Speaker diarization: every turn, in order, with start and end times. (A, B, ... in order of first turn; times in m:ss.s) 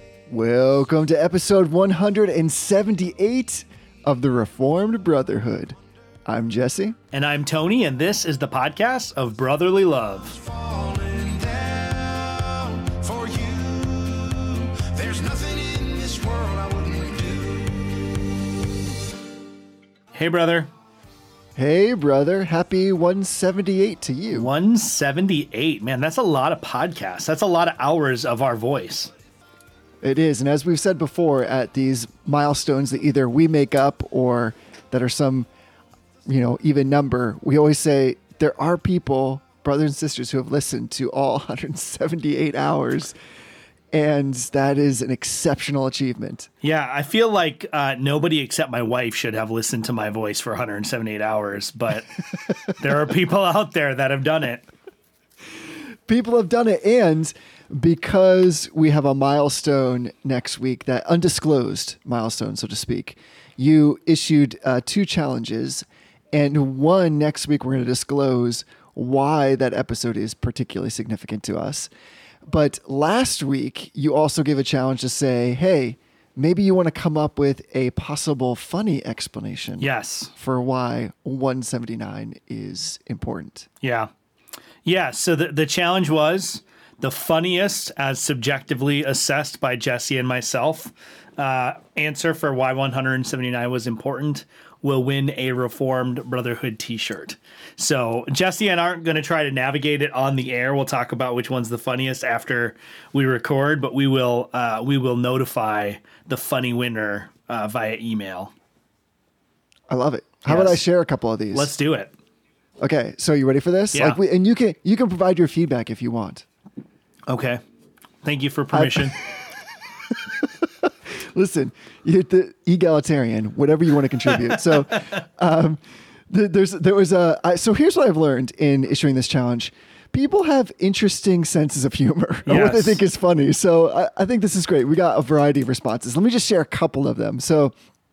0:00.3-0:07.0 A
0:07.1-0:10.4 B
0:10.4-0:18.7 C
0:20.1-0:20.7 B
0:21.6-0:24.5 A
0:24.3-0:29.1 B
0:30.0-0:35.5 A
0:36.3-0:43.1 A
0:43.9-0:46.5 A
0:46.6-0:54.6 B
0:56.1-1:11.9 A
1:12.4-1:23.7 A
1:19.8-1:20.3 B
1:23.8-1:24.1 B
1:24.8-1:48.5 B
1:49.9-1:51.7 A
1:50.5-1:50.8 B
1:51.5-1:52.1 B
1:52.8-1:56.4 A
1:53.9-1:54.2 B
1:57.3-1:57.6 B
1:58.2-1:59.2 B
1:58.7-1:59.2 A
2:00.1-2:17.7 A
2:12.5-2:13.0 B